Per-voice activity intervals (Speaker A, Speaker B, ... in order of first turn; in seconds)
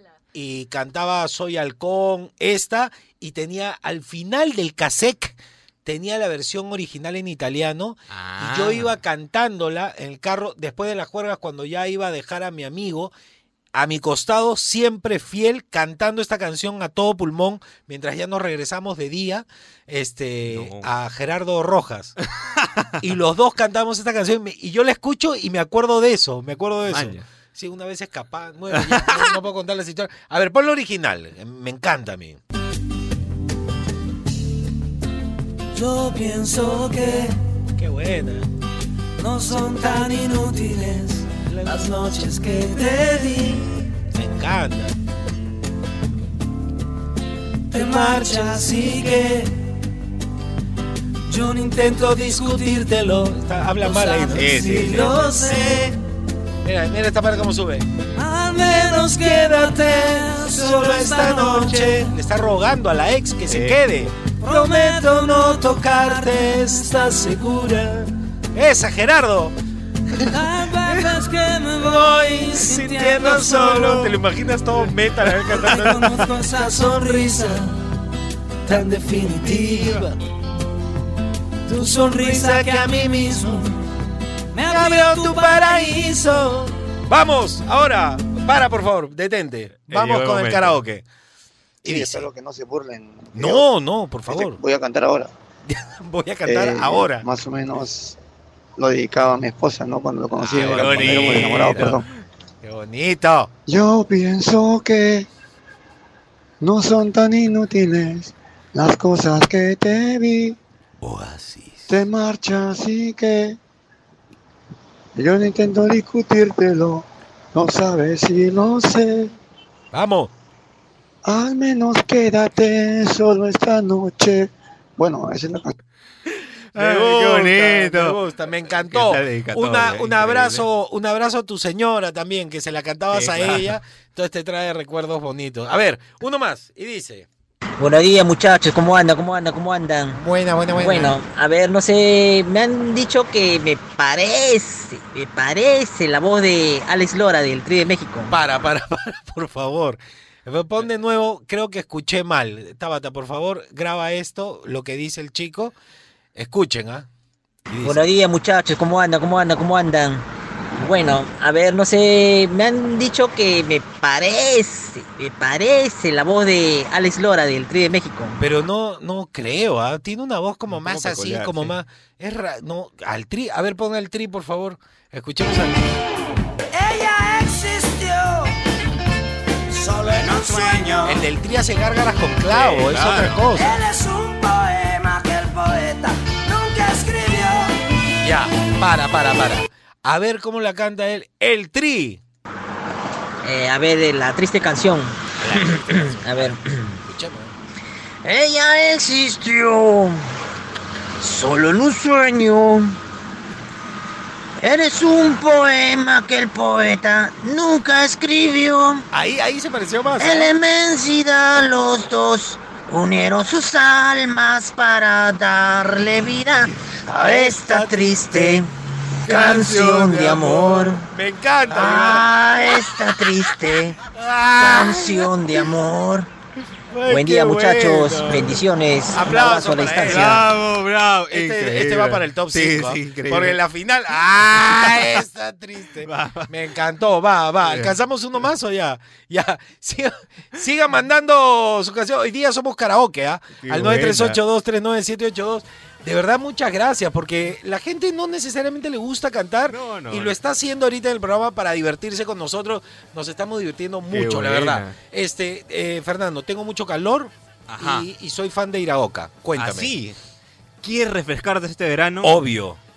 Speaker A: 0.3-13.1, 13.7-22.1, 23.0-32.4, 37.8-38.5, 41.5-41.9, 44.1-44.9, 52.3-55.3, 56.6-57.9, 59.1-67.0, 68.5-69.5, 70.1-71.2, 71.8-76.2, 78.7-80.2, 82.2-83.4, 84.7-91.0, 91.8-92.3, 93.3-94.6, 95.7-97.2, 100.5-102.0, 102.6-103.5, 111.0-111.9, 119.9-120.3, 126.8-137.3, 140.1-141.2, 148.3-155.7, 156.3-157.1, 157.7-158.0, 168.4-175.9, 181.0-183.7, 188.2-192.2, 195.4-197.5, 209.1-210.5, 217.1-218.7, 219.2-222.9, 224.1-225.4, 226.9-230.5, 231.3-259.9, 262.2-262.8
Speaker B: 8.1-8.9, 20.5-20.9, 22.6-22.9, 26.9-27.2, 28.7-29.3, 54.4-55.3, 63.5-63.8, 75.5-76.1, 89.9-90.8, 100.4-102.0, 126.7-128.2, 128.7-130.7, 133.1-133.7, 170.7-171.7, 180.2-181.2, 182.4-183.5, 230.0-233.6, 234.2-235.2, 236.0-236.5, 237.6-237.9, 243.6-244.4, 249.7-250.4, 254.1-254.9, 257.7-258.1, 259.6-260.2, 260.8-262.4
Speaker C: 35.7-37.4, 39.2-43.8, 47.7-49.6, 51.3-53.1, 53.8-55.9, 58.1-62.1, 64.4-68.0, 70.3-74.1, 75.6-77.7, 78.7-80.1, 81.7-83.8, 84.5-86.7, 176.7-178.6, 179.7-181.2, 183.6-187.8
Speaker D: 91.8-93.7, 94.3-95.3, 96.5-98.2, 98.8-102.0, 103.7-105.3, 106.6-110.6, 111.9-113.6, 115.2-119.3, 121.2-125.7
Speaker E: 137.8-140.2, 140.8-148.3, 157.8-160.2, 160.8-168.3, 193.4-196.9, 198.2-200.2, 201.2-202.9, 204.6-209.0, 210.2-216.7, 217.2-218.7, 219.3-221.0, 221.7-223.9, 224.6-226.3, 227.1-230.4